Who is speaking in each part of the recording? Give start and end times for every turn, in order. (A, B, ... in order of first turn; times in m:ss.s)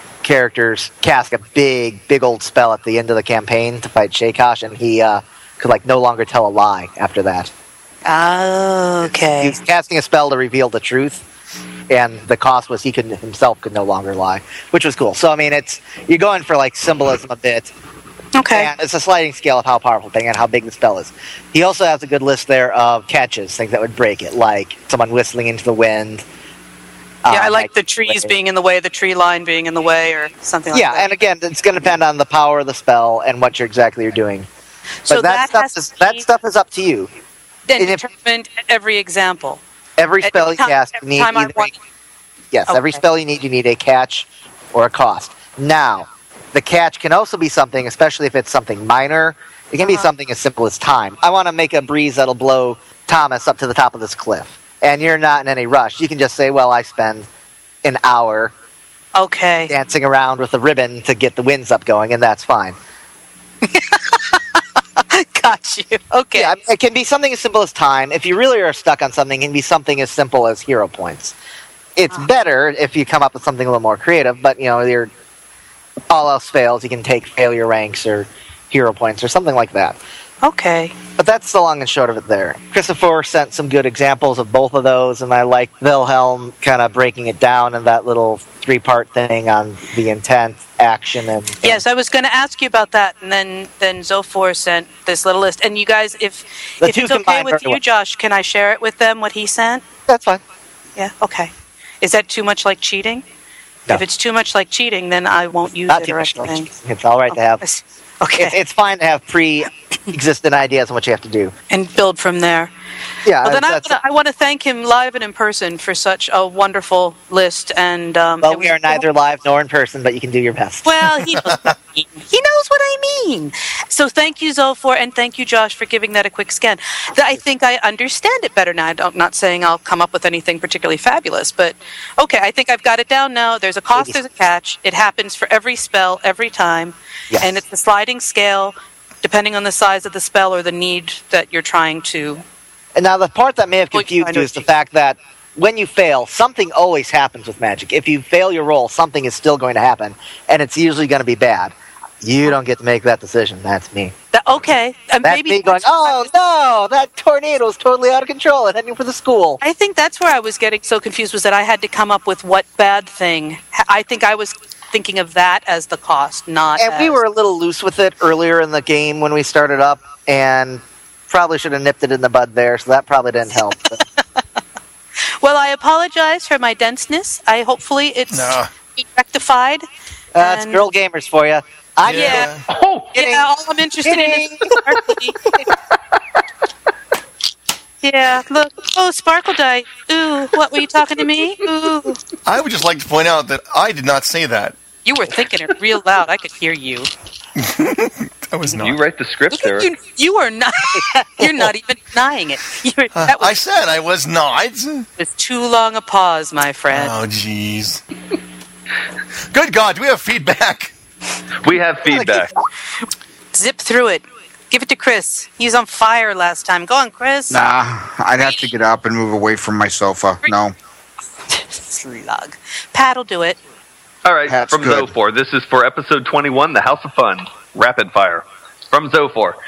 0:00.2-0:07.5 A
0:08.0-0:09.6 B
0:09.4-0:11.2 A
0:11.9-0:17.7 A
0:18.4-0:18.7 B
0:18.5-0:26.2 A
0:27.2-0:28.3 A
0:27.3-0:31.1 B
0:30.7-0:34.5 A
0:35.1-0:36.2 B
0:35.1-0:37.1 A
0:37.7-0:39.6 B
0:37.8-0:38.0 A
0:40.0-0:41.7 A
0:40.2-0:41.8 B
0:42.5-0:57.3 A
0:42.7-0:43.0 B
0:49.8-0:50.1 B
0:57.8-0:58.5 A
0:59.2-0:59.7 B
0:59.7-1:02.8 A
1:03.7-1:04.6 B
1:05.1-1:06.5 B
1:06.4-1:11.4 A
1:12.0-1:15.1 A
1:16.1-1:20.0 A
1:20.4-1:21.0 B
1:21.2-1:31.8 A
1:31.6-1:39.8 B
1:36.8-1:37.8 A
1:40.1-1:40.4 A
1:41.0-1:43.2 B
1:43.9-1:46.7 B
1:45.9-1:47.6 A
1:47.3-1:48.6 B
1:48.4-1:51.5 A
1:51.7-1:52.7 B
1:53.2-1:54.0 A
1:53.4-1:59.0 B
1:58.4-2:00.9 A
2:00.8-2:22.4 B
2:01.5-2:01.7 C
2:23.0-2:34.1 A
2:23.9-2:24.7 B
2:34.3-2:36.3 B
2:35.2-2:39.6 A
2:39.6-2:47.2 B
2:46.8-2:54.0 A
2:55.4-2:59.8 B
2:58.3-2:58.7 C
3:00.3-3:02.5 A
3:00.4-3:00.8 B
3:02.0-3:02.6 C
3:02.1-3:02.5 B
3:02.7-3:03.1 D
3:03.1-3:05.6 B
3:03.2-3:03.5 A
3:04.0-3:04.8 A
3:08.0-3:12.2 B
3:12.5-3:14.8 C
3:15.0-3:17.1 B
3:17.6-3:19.0 C
3:18.7-3:19.9 D
3:19.5-3:23.6 B
3:20.9-3:21.6 A
3:23.2-3:25.1 C
3:25.2-3:27.1 B
3:26.9-3:28.0 C
3:29.5-3:30.9 C
3:31.6-3:32.5 D
3:32.1-3:32.5 A
3:33.5-3:37.6 B
3:37.5-3:40.8 E
3:41.5-3:43.6 B
3:44.2-3:49.6 D
3:44.5-3:45.1 E